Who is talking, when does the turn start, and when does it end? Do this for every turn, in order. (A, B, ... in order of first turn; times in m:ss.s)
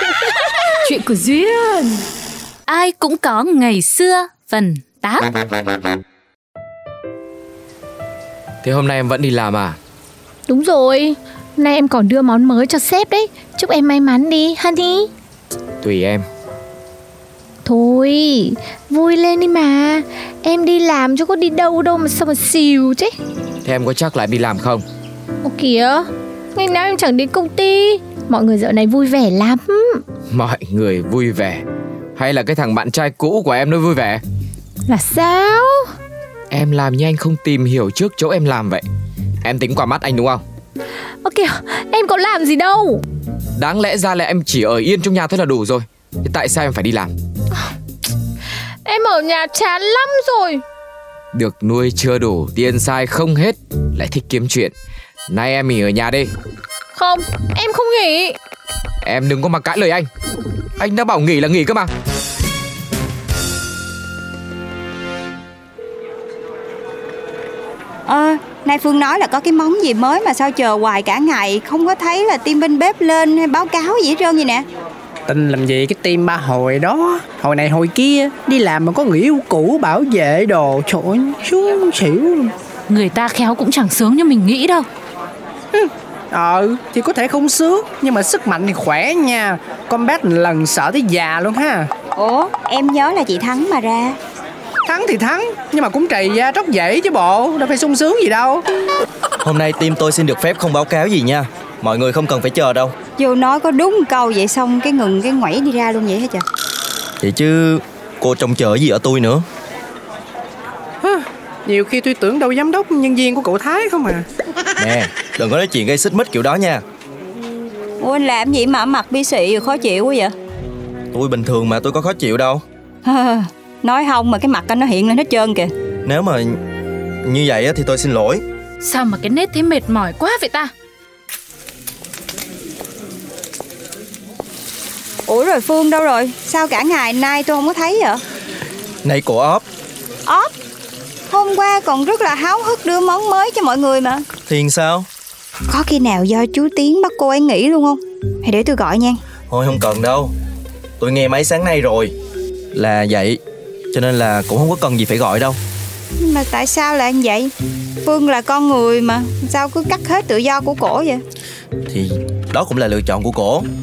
0:00.8-0:02.0 A
0:02.7-0:05.3 A
0:08.6-0:09.8 B
0:10.5-0:15.1 C
0:15.8-0:16.2 B
0:17.6-0:23.1 C
0:23.6-0:24.8 B
0:25.4-0:30.0 C
0:30.3-0:31.6 B
0:32.2-0:34.2 B
0:34.9-0:35.9 C
0:36.5-0:38.8 B
0:39.4-0:40.4 B
0:41.2-0:43.0 C
0:43.6-0:47.1 B
0:48.8-0:50.6 C
0:51.3-0:54.7 B
0:55.3-0:56.3 B
0:56.9-0:58.4 C
0:59.0-1:00.1 B
1:00.8-1:01.9 B
1:08.1-1:14.6 D
1:15.3-1:22.5 E
1:22.9-1:24.9 A
1:25.7-1:31.9 E
1:32.2-1:34.2 D
1:34.9-1:38.6 E
1:39.4-1:42.9 F
1:43.2-1:46.4 D
1:47.2-1:49.4 F
1:51.0-1:54.3 E
1:54.8-1:56.8 F
1:58.0-2:00.3 D
2:01.1-2:02.6 F
2:03.0-2:05.7 D
2:06.0-2:06.6 F
2:07.2-2:08.4 F
2:08.8-2:10.7 A
2:15.3-2:18.2 D
2:19.0-2:19.6 F
2:21.3-2:24.3 D
2:24.5-2:25.1 F
2:25.7-2:29.2 D
2:29.5-2:30.3 F
2:31.0-2:32.1 F
2:32.8-2:33.4 F
2:33.9-2:35.6 F
2:36.2-2:37.5 D
2:38.0-2:41.2 D
2:41.9-2:43.7 F